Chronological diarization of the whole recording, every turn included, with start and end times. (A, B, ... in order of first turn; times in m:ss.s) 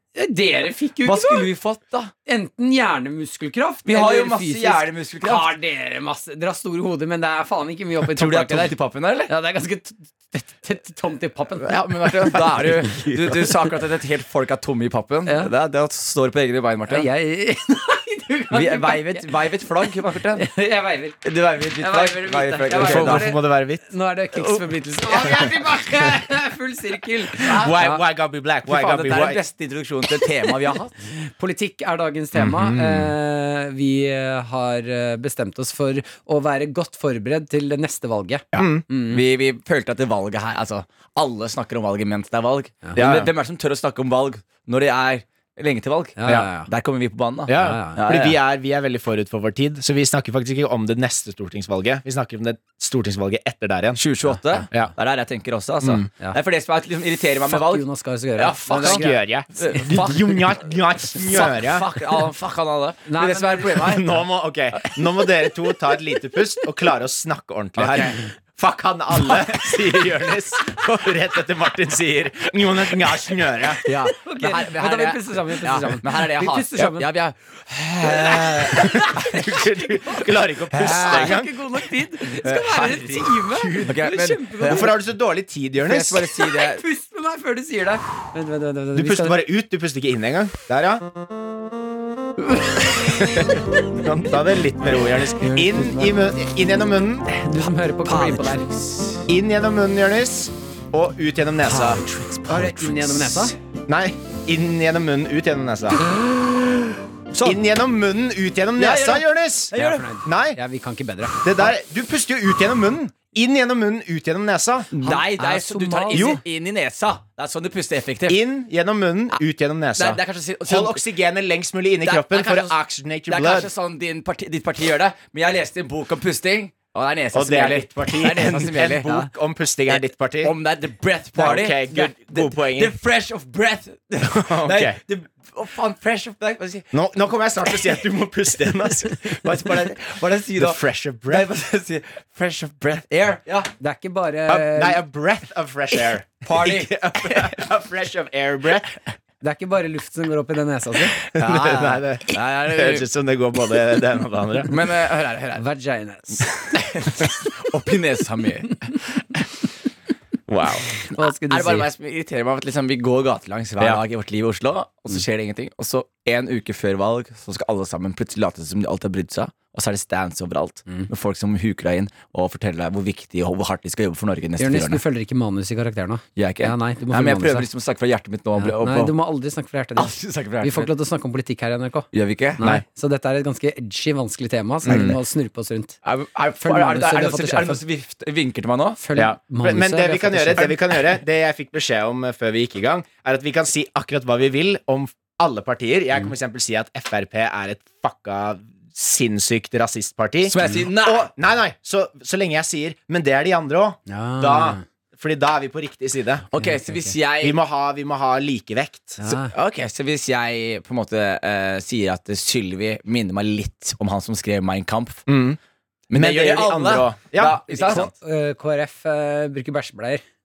0:00.2-0:01.5 A
0:01.0-0:02.1 B
0:02.3-0:08.7 A
0:03.8-0:05.5 B
0:08.1-0:09.3 B
0:09.3-0:13.1 A
0:11.6-0:17.1 B
0:15.3-0:15.5 A
0:16.9-0:19.3 A
0:18.5-0:20.5 B
0:20.4-0:21.2 A
0:21.2-0:23.4 B
0:21.8-0:28.0 A
0:22.8-0:23.8 C
0:24.3-0:25.4 B
0:27.4-0:29.4 C
0:27.4-0:27.7 B
0:28.7-0:30.9 B
0:30.2-0:39.2 A
0:32.3-0:33.1 C
0:38.5-0:48.4 B
0:38.6-0:38.8 C
0:43.0-0:43.3 C
0:46.2-0:46.7 A
0:47.5-0:54.0 C
0:47.6-0:48.0 A
0:54.0-0:57.9 B
0:57.5-0:59.2 A
0:58.4-0:59.0 B
0:58.7-1:01.9 C
0:59.6-1:00.6 B
1:01.2-1:04.1 B
1:03.1-1:04.0 A
1:03.8-1:13.8 C
1:07.8-1:08.2 B
1:09.3-1:09.5 B
1:13.8-1:19.6 B
1:14.1-1:17.1 A
1:18.1-1:19.2 A
1:18.2-1:21.5 C
1:20.7-1:25.0 B
1:20.8-1:24.9 A
1:24.6-1:26.2 C
1:25.8-1:26.8 B
1:26.3-1:29.5 A
1:28.9-1:31.1 C
1:32.5-1:33.5 A
1:33.2-1:37.3 C
1:35.0-1:35.6 B
1:35.4-1:36.2 A
1:37.3-1:38.7 A
1:38.0-1:39.3 B
1:39.3-1:42.0 C
1:41.6-1:43.5 B
1:42.5-1:43.5 A
1:43.9-1:46.0 C
1:46.7-1:47.6 B
1:47.4-1:50.6 C
1:48.8-1:50.0 B
1:49.8-1:51.4 A
1:51.4-1:54.9 C
1:54.9-1:58.4 B
1:55.0-1:56.4 A
1:56.1-1:56.4 C
1:58.3-2:03.7 C
2:00.0-2:01.1 B
2:02.0-2:02.8 B
2:03.3-2:09.3 B
2:07.3-2:10.5 C
2:09.9-2:16.9 B
2:11.4-2:13.0 C
2:14.2-2:15.0 C
2:16.9-2:19.7 C
2:17.6-2:18.0 B
2:19.1-2:23.7 B
2:20.6-2:21.5 C
2:23.8-2:25.0 A
2:24.5-2:29.0 C
2:26.4-2:27.6 B
2:29.4-2:31.2 A
2:31.2-2:33.1 B
2:31.3-2:34.7 C
2:34.7-2:35.6 B
2:35.5-2:36.8 A
2:36.7-2:39.5 B
2:40.5-2:40.9 C
2:41.1-2:41.9 A
2:41.2-2:55.0 B
2:54.6-2:57.7 A
2:56.4-2:59.1 B
2:58.6-3:06.0 A
3:00.0-3:00.9 B
3:02.1-3:02.6 B
3:04.8-3:05.2 C
3:04.9-3:05.2 B
3:06.0-3:09.0 B
3:06.6-3:07.8 A
3:09.0-3:10.8 A
3:09.1-3:26.4 C
3:20.4-3:21.3 B
3:24.1-3:24.8 A
3:26.5-3:27.6 B
3:26.6-3:27.1 A
3:27.4-3:29.2 C
3:29.2-3:29.5 A
3:29.3-3:35.3 B
3:35.3-3:35.6 C
3:36.1-3:38.1 B
3:36.1-3:38.1 C
3:37.7-3:40.2 A